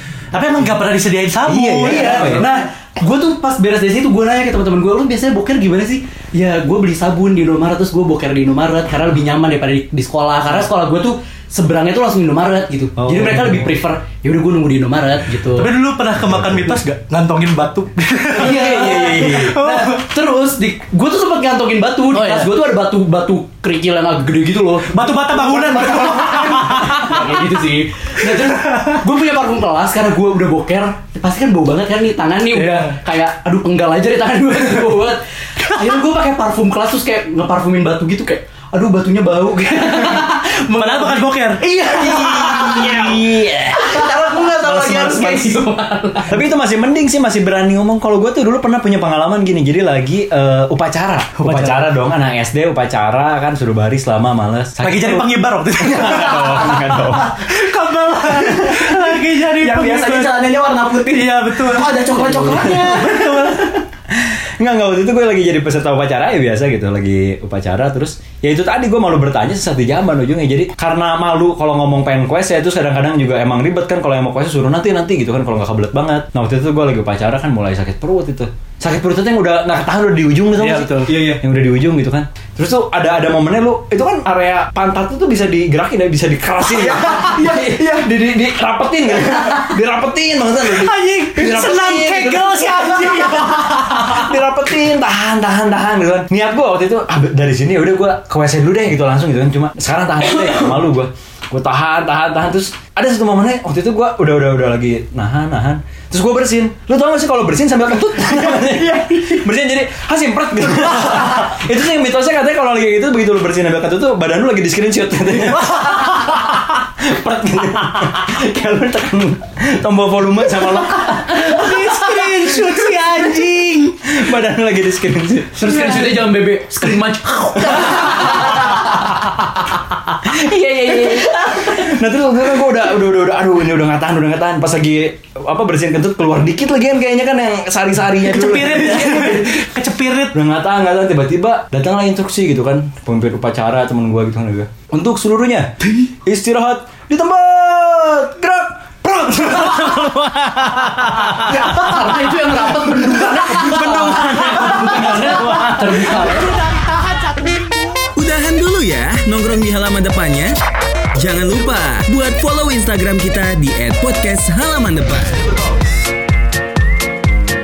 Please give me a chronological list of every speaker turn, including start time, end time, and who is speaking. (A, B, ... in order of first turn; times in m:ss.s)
0:00.3-0:02.5 A
0:01.4-0:02.5 B
0:01.8-0:15.7 C
0:13.0-0:13.7 B
0:15.6-0:20.0 A
0:16.2-0:16.6 B
0:18.3-0:43.2 C
0:18.4-0:19.5 B
0:22.1-0:22.6 A
0:24.9-0:27.1 A
0:28.4-0:29.0 A
0:32.5-0:33.0 A
0:40.7-0:41.6 A
0:41.8-0:45.6 B
0:43.7-0:46.4 C
0:46.3-0:57.6 B
0:51.4-0:51.9 A
0:54.8-1:00.5 A
0:58.3-0:59.0 B
0:59.6-1:03.2 D
1:01.1-1:03.8 A
1:02.5-2:02.7 B
1:20.6-1:21.1 A
1:21.0-1:21.4 D
1:26.7-1:27.9 D
1:30.7-1:34.2 A
1:55.5-1:56.0 A
2:01.3-2:03.9 A
2:04.0-2:06.1 B
2:05.5-2:08.8 C
2:07.6-2:09.2 B
2:10.2-2:19.5 B
2:18.2-2:20.4 A
2:20.3-2:32.3 B
2:29.6-2:30.0 A
2:31.4-2:36.6 C
2:33.4-2:35.8 B
2:34.0-2:35.6 A
2:38.1-2:40.6 E
2:41.1-2:45.4 E